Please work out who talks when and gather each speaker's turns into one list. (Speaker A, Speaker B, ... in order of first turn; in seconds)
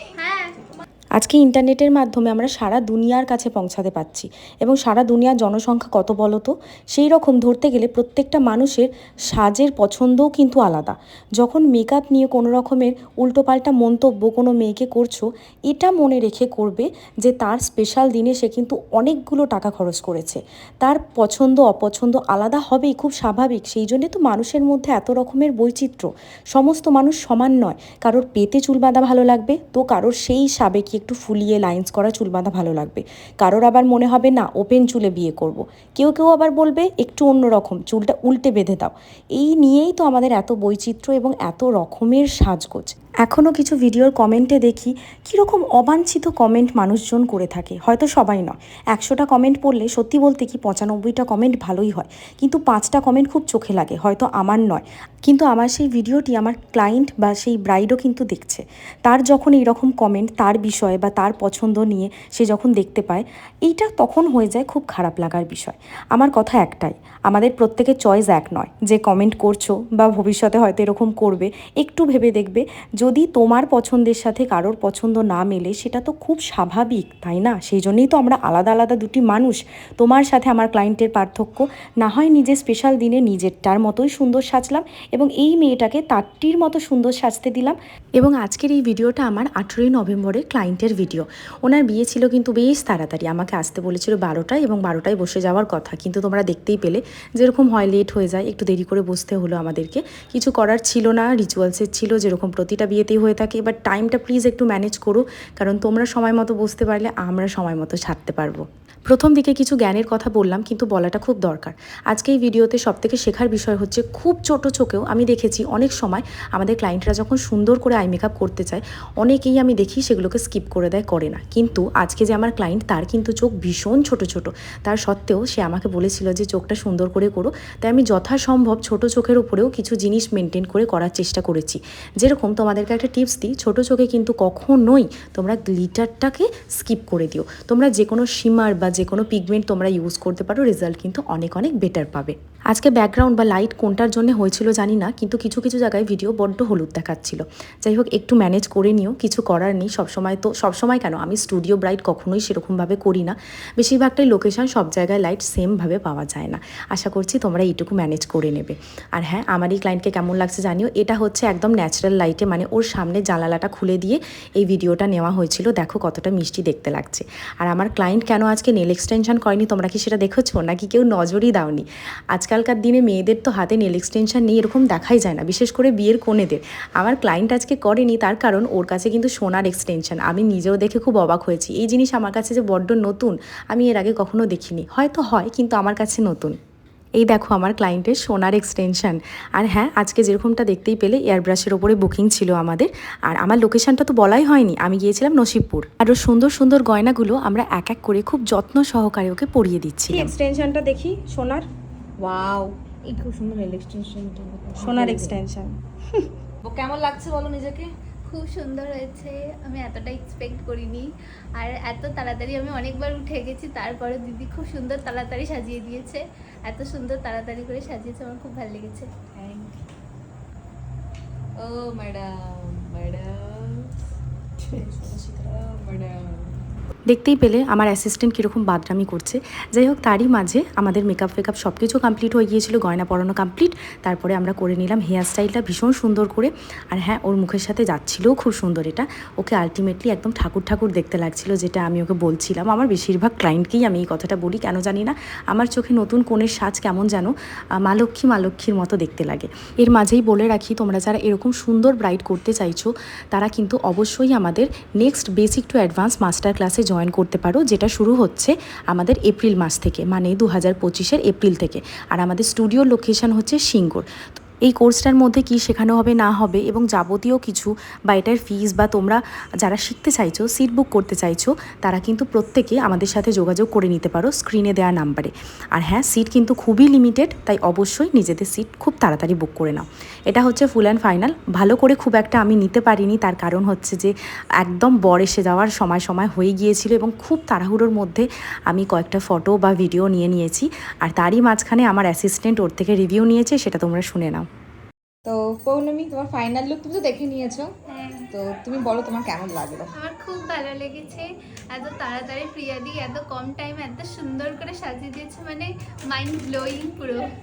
Speaker A: 0.2-0.6, 208.3-219.1, 297.9-298.3, 299.9-307.3
Speaker B: 1.2-186.6, 187.2-200.3, 227.1-247.3, 247.8-264.1, 264.6-294.4
Speaker C: 200.1-201.7, 204.8-205.7
Speaker D: 202.2-205.4, 206.6-207.9, 219.3-219.8, 221.6-223.9, 224.6-226.5, 295.2-297.7, 298.3-299.9